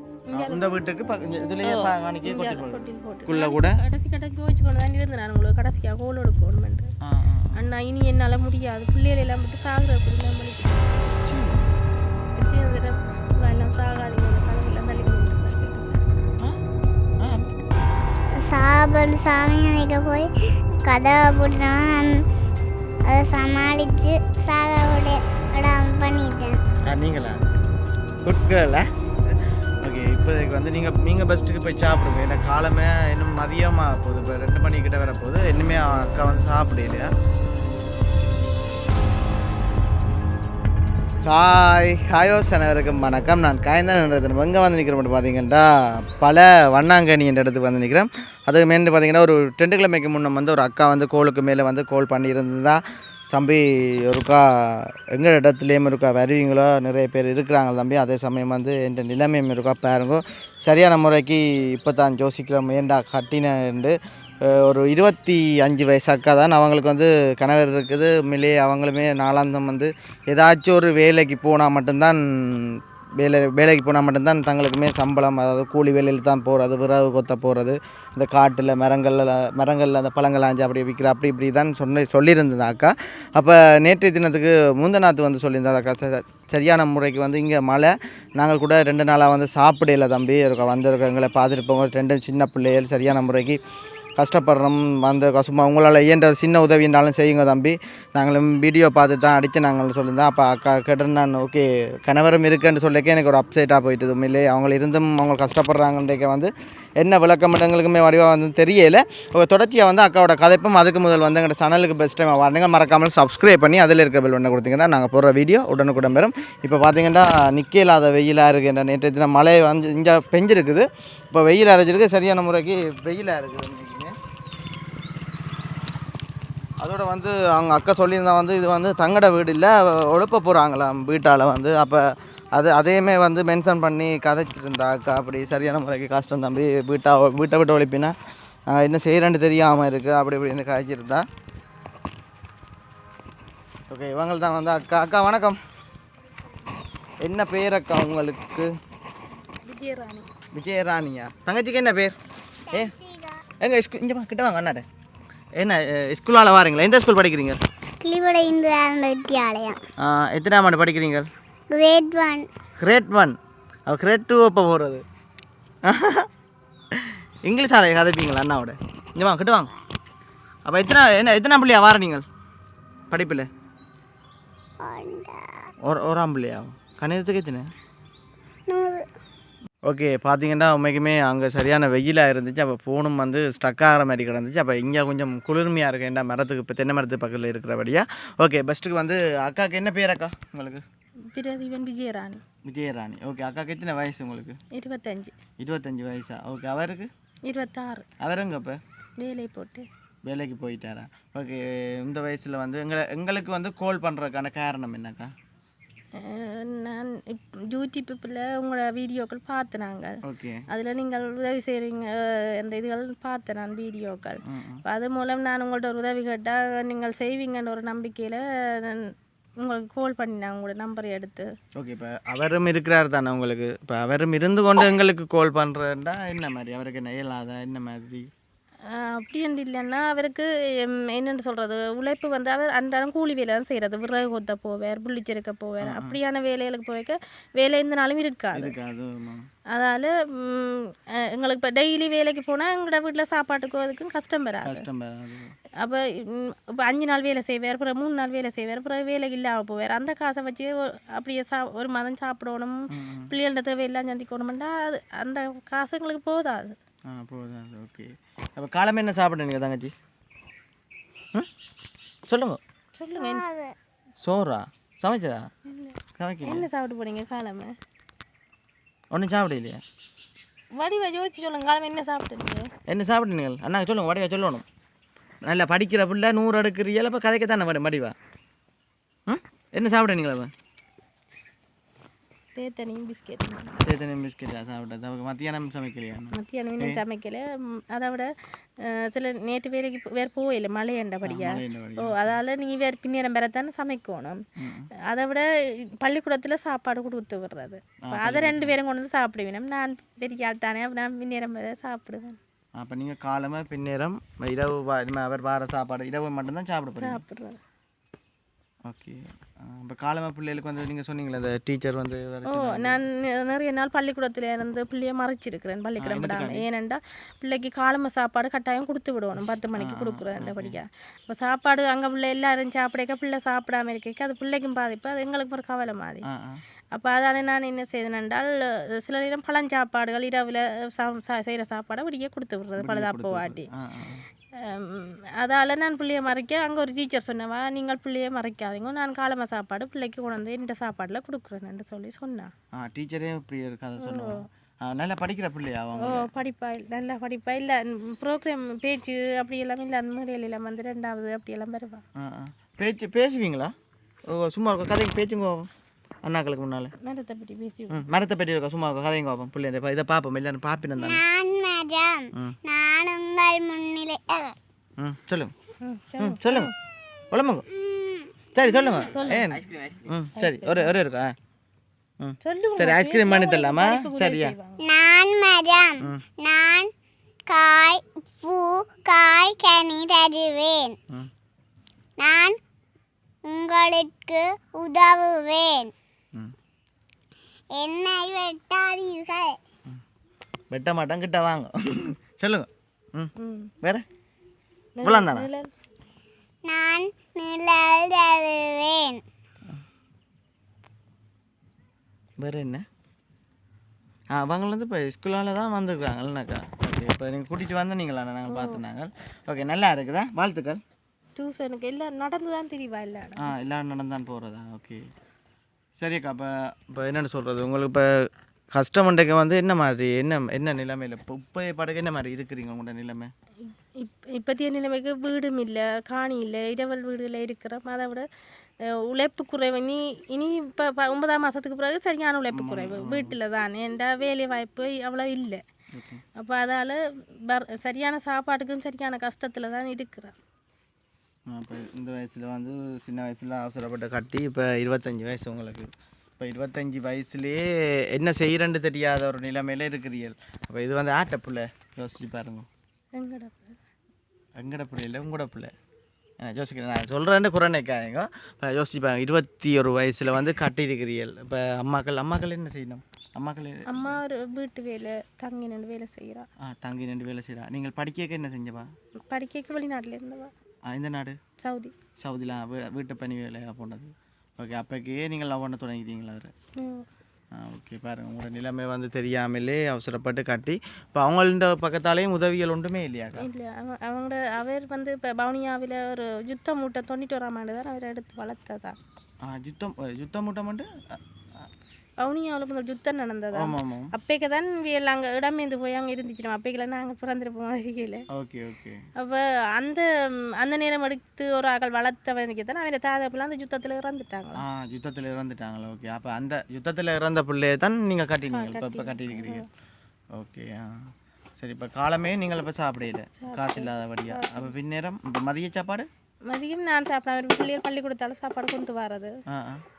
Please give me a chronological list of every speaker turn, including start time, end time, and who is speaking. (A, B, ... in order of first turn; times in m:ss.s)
0:00.3-0:00.8 A
0:00.3-0:03.8 B
0:01.6-0:06.9 A
0:07.0-0:07.6 B
0:07.6-0:11.0 A
0:11.2-0:11.7 B
0:12.4-0:16.0 A
0:17.2-0:17.5 B
0:18.4-0:20.3 C
0:20.8-0:22.2 C
0:23.1-0:26.6 C
0:26.9-0:27.4 B
0:28.2-0:37.1 B
0:41.2-0:52.8 B
0:53.3-1:33.6 B
1:34.2-2:04.1 B
2:06.8-2:18.2 B
2:18.7-2:21.3 B
2:23.9-2:25.6 B
2:27.2-2:28.7 B
2:29.6-2:30.3 A
2:30.5-2:32.2 B
2:32.7-2:33.0 B
2:32.7-2:33.4 C
2:33.6-2:34.8 B
2:35.6-2:37.6 B
2:38.0-2:39.8 C
2:40.0-2:41.3 B
2:41.7-2:42.5 C
2:42.8-2:43.4 B
2:43.9-2:45.0 B
2:45.8-2:46.3 B
2:47.0-2:49.7 B
2:50.7-2:52.2 B
2:53.1-2:53.5 B
2:54.8-2:55.7 C
2:55.8-2:57.7 B
2:58.7-2:59.0 C
2:59.9-3:10.8 B
3:11.3-3:12.4 A
3:12.6-3:14.6 B
3:14.7-3:15.4 A
3:15.6-3:17.1 B
3:17.5-3:18.1 A
3:18.2-3:18.8 B
3:19.2-3:19.9 A
3:20.2-3:25.3 B
3:26.2-3:30.2 A
3:30.2-3:30.6 B
3:30.7-3:41.5 A
3:34.4-3:34.8 B
3:41.8-3:48.3 B
3:48.9-3:58.8 A
3:55.8-3:56.2 B
3:58.5-3:59.4 B
3:59.7-4:04.8 A
4:04.6-4:05.5 B
4:05.8-4:16.8 A
4:12.9-4:13.3 B
4:17.1-4:19.9 B
4:22.3-4:22.6 B
4:23.0-4:23.4 A
4:23.2-4:23.8 C
4:24.2-4:25.5 B
4:25.7-4:27.8 A
4:26.2-4:26.7 B
4:29.1-4:29.8 B
4:30.8-4:32.7 A
4:32.9-4:34.6 B
4:35.4-4:38.2 B
4:39.3-4:40.5 B
4:42.6-4:43.8 A
4:43.8-4:47.0 B
4:46.3-4:48.3 A
4:48.8-4:54.4 A
4:51.2-4:52.4 B
4:54.6-4:54.9 B
4:55.1-4:55.5 A
4:56.0-5:02.4 A
4:58.0-4:58.8 B
5:02.8-5:07.2 B
5:07.0-5:07.6 A
5:08.9-5:13.0 B
5:12.5-5:26.3 A
5:16.0-5:16.7 B
5:19.8-5:20.8 B
5:26.2-5:26.6 B
5:26.9-5:33.7 A
5:32.8-5:34.3 B
5:34.6-5:42.5 A
5:42.7-5:46.3 B
5:44.0-5:44.4 A
5:46.0-5:52.0 A
5:52.2-5:53.7 B
5:54.3-5:55.7 B
5:56.2-5:56.9 B
5:57.0-5:58.0 A
5:57.9-6:01.2 B
6:01.0-6:04.6 C
6:02.3-6:02.6 B
6:05.0-6:05.5 B
6:05.8-6:06.7 A
6:06.2-6:06.7 B
6:07.3-6:07.7 B
6:07.8-6:09.1 C
6:08.5-6:11.4 B
6:09.1-6:10.9 A
6:12.2-6:14.6 B
6:12.4-6:14.8 A
6:14.8-6:16.9 C
6:16.0-6:16.2 B
6:17.5-6:21.0 C
6:22.2-6:22.6 C
6:23.5-6:25.9 C
6:27.8-6:29.6 C
6:30.7-6:34.0 B
6:33.4-6:33.7 A
6:35.0-6:35.7 A
6:35.0-6:35.5 B
6:36.7-6:39.2 C
6:42.4-6:42.8 B
6:44.3-6:50.8 B
6:48.5-6:48.8 A
6:51.4-6:53.5 A
6:53.4-6:55.0 B
6:56.0-6:58.1 B
6:58.8-7:03.3 B
7:03.6-7:08.3 A
7:08.8-7:15.6 A
7:12.5-7:13.4 B
7:15.9-7:16.2 B
7:16.4-7:20.4 A
7:21.5-7:32.7 B
7:33.2-7:33.8 A
7:34.6-7:35.7 B
7:36.4-7:44.2 B
7:43.9-7:46.5 A
7:46.6-7:48.9 B
7:49.3-7:50.5 A
7:50.9-7:51.4 B
7:51.6-7:52.0 A
7:52.2-7:56.5 B
7:56.8-7:57.0 A
7:57.6-8:03.5 B
8:03.4-8:09.0 A
8:09.4-8:11.2 B
8:12.2-8:18.2 A
8:13.5-8:14.1 B
8:18.3-8:19.0 B
8:19.2-8:20.0 A
8:20.6-8:24.6 A
8:24.6-8:29.6 B
8:28.5-8:29.7 A
8:30.3-8:36.1 B
8:33.4-8:34.8 A
8:36.5-8:39.4 A
8:39.5-8:39.8 B